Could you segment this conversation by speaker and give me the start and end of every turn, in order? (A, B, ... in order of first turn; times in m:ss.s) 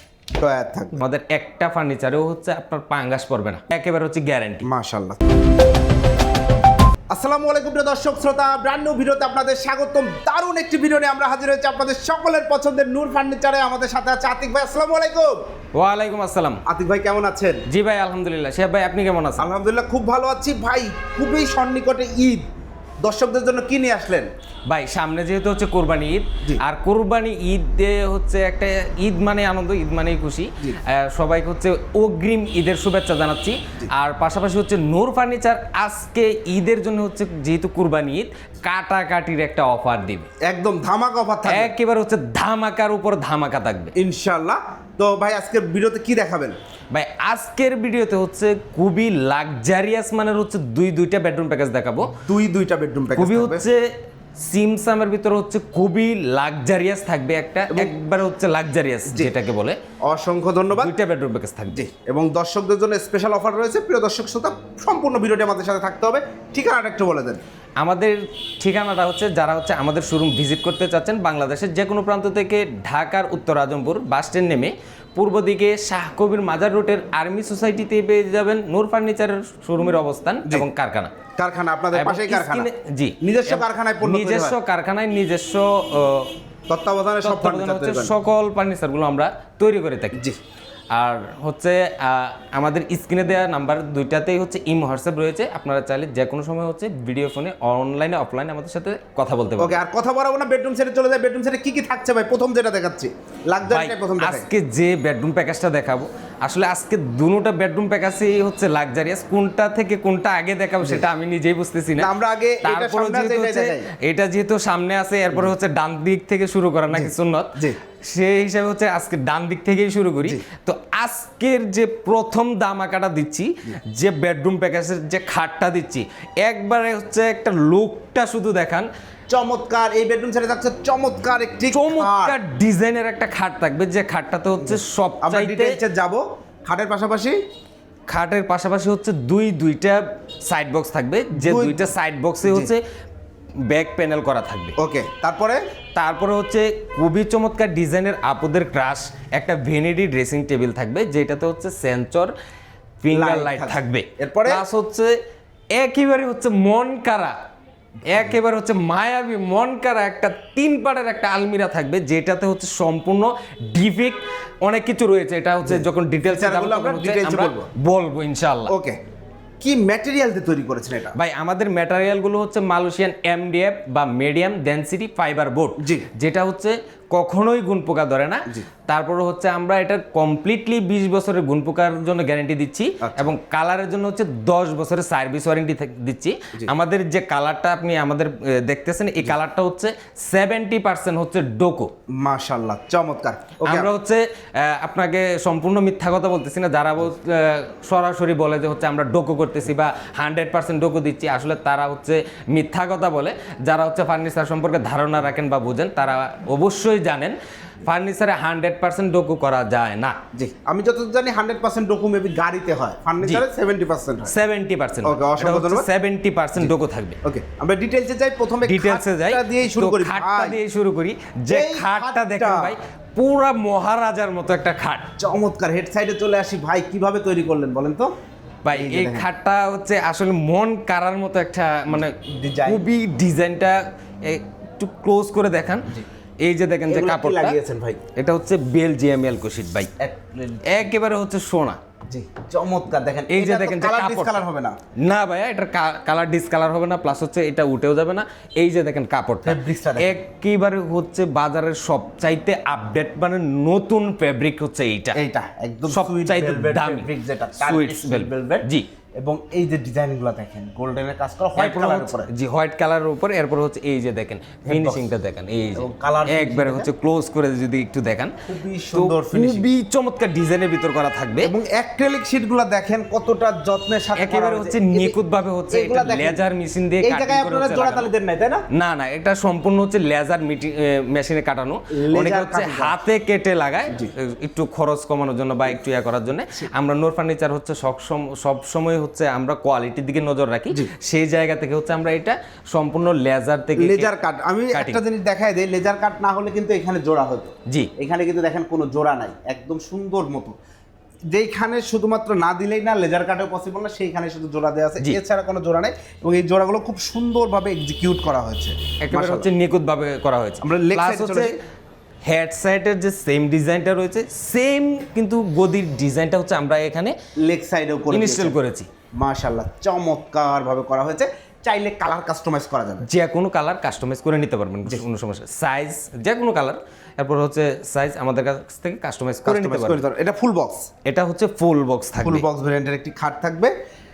0:00.3-0:01.0 A
0:00.9-0:04.6 B
0:04.6-0:05.2 A
0:07.1-0:15.4 A
0:15.7-0:16.6 B
0:16.6-0:17.6 A
0:17.7-0:19.5 B
0:19.4-0:22.4 A
0:23.0-0:24.3 A
0:24.7-0:40.3 B
0:40.4-0:41.7 A
0:41.4-0:43.9 B
0:44.0-0:46.5 A
0:46.9-0:52.2 B
0:52.1-0:53.6 A
0:53.1-0:59.8 B
0:57.7-0:57.9 A
0:59.1-0:59.3 A
1:00.0-1:00.9 A
1:00.7-1:01.8 B
1:01.7-1:07.4 A
1:07.8-1:21.1 B
1:21.4-1:22.7 A
1:21.9-1:26.3 B
1:23.2-1:24.6 A
1:26.7-1:28.1 A
1:27.2-1:30.2 B
1:30.9-1:39.8 B
1:39.6-1:44.5 A
1:43.7-2:08.9 B
1:52.0-1:53.9 A
1:56.9-1:57.8 A
2:09.3-2:12.4 A
2:11.7-2:15.8 B
2:14.6-2:17.4 A
2:18.1-2:22.8 B
2:21.3-2:21.8 A
2:22.4-2:22.7 A
2:23.7-2:24.7 B
2:24.8-2:25.6 A
2:26.0-2:32.3 B
2:33.0-2:35.1 B
2:33.1-2:34.6 A
2:35.7-2:37.3 B
2:38.1-2:48.7 B
2:45.6-2:47.7 A
2:48.7-2:49.0 A
2:49.6-2:51.2 A
2:51.1-3:11.9 B
2:55.8-2:56.1 A
3:03.0-3:03.3 A
3:12.1-3:13.9 A
3:13.6-3:30.2 B
3:30.3-3:34.3 A
3:34.2-3:37.2 B
3:35.0-3:35.9 A
3:36.6-3:40.6 A
3:38.6-3:45.1 B
3:41.5-3:42.7 A
3:45.2-3:48.1 A
3:48.6-3:57.6 B
3:48.7-3:49.2 A
3:52.1-3:52.8 A
3:56.9-3:58.0 A
3:58.2-3:59.9 B
4:00.0-4:00.9 A
4:00.6-4:01.8 B
4:02.1-4:04.8 A
4:03.3-4:04.4 B
4:05.0-4:15.2 B
4:09.4-4:10.2 A
4:15.1-4:18.7 A
4:15.9-4:18.9 B
4:19.2-4:22.3 A
4:21.6-4:28.3 B
4:24.6-4:25.1 A
4:25.8-4:26.9 A
4:28.5-4:29.7 A
4:28.9-4:31.5 B
4:31.4-4:35.2 A
4:34.2-4:38.1 B
4:35.7-4:36.4 A
4:37.0-4:38.6 A
4:38.7-4:54.1 B
4:41.9-4:43.0 A
4:53.8-5:00.5 A
4:54.7-4:55.0 B
5:01.3-5:09.5 A
5:09.0-5:11.5 B
5:10.6-5:11.5 A
5:12.2-5:17.1 B
5:17.4-5:18.5 A
5:18.1-5:18.9 B
5:19.2-5:23.0 A
5:23.0-5:30.0 B
5:29.4-5:30.9 A
5:31.0-5:32.4 B
5:32.2-5:33.7 A